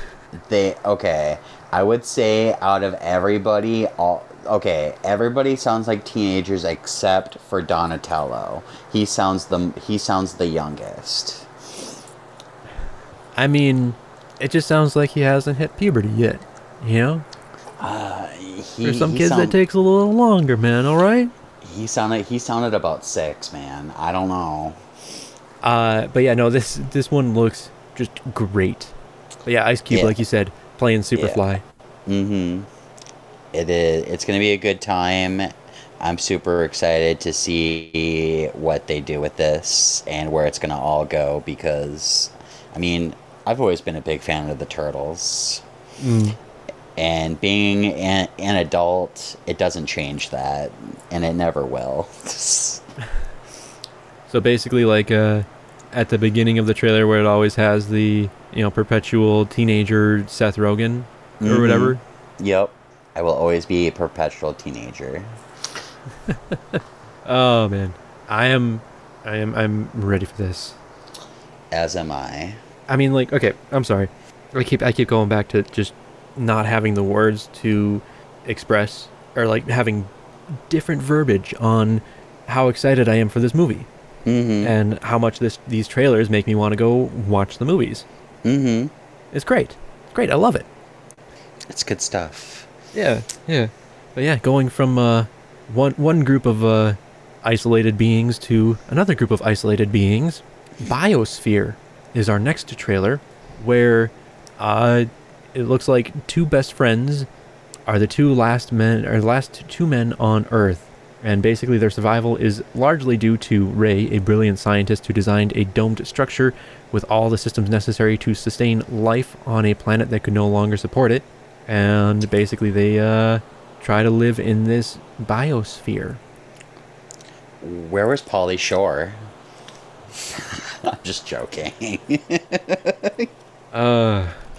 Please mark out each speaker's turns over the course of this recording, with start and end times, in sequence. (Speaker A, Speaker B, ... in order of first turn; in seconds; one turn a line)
Speaker A: 0.3-11.8
Speaker B: 13.3-17.2
Speaker A: 17.8-19.6
Speaker B: 18.8-21.3
Speaker A: 21.6-24.8
Speaker B: 25.6-28.9
Speaker B: 29.4-31.6
Speaker A: 29.9-30.2
Speaker A: 31.2-31.5
Speaker A: 32.1-32.7
Speaker A: 33.5-45.6
Speaker B: 46.0-46.4
Speaker A: 47.0-52.8
Speaker B: 54.3-62.0
Speaker A: 61.4-65.4
Speaker B: 66.3-70.8
Speaker A: 71.7-72.6
Speaker B: 72.9-83.9
Speaker A: 84.2-84.7
Speaker B: 84.6-88.0
Speaker A: 88.4-88.9
Speaker B: 89.3-90.7
Speaker A: 91.7-92.7
Speaker B: 92.9-107.3
Speaker B: 107.9-126.2
Speaker A: 127.6-129.3
Speaker A: 130.3-133.3
Speaker B: 133.7-134.4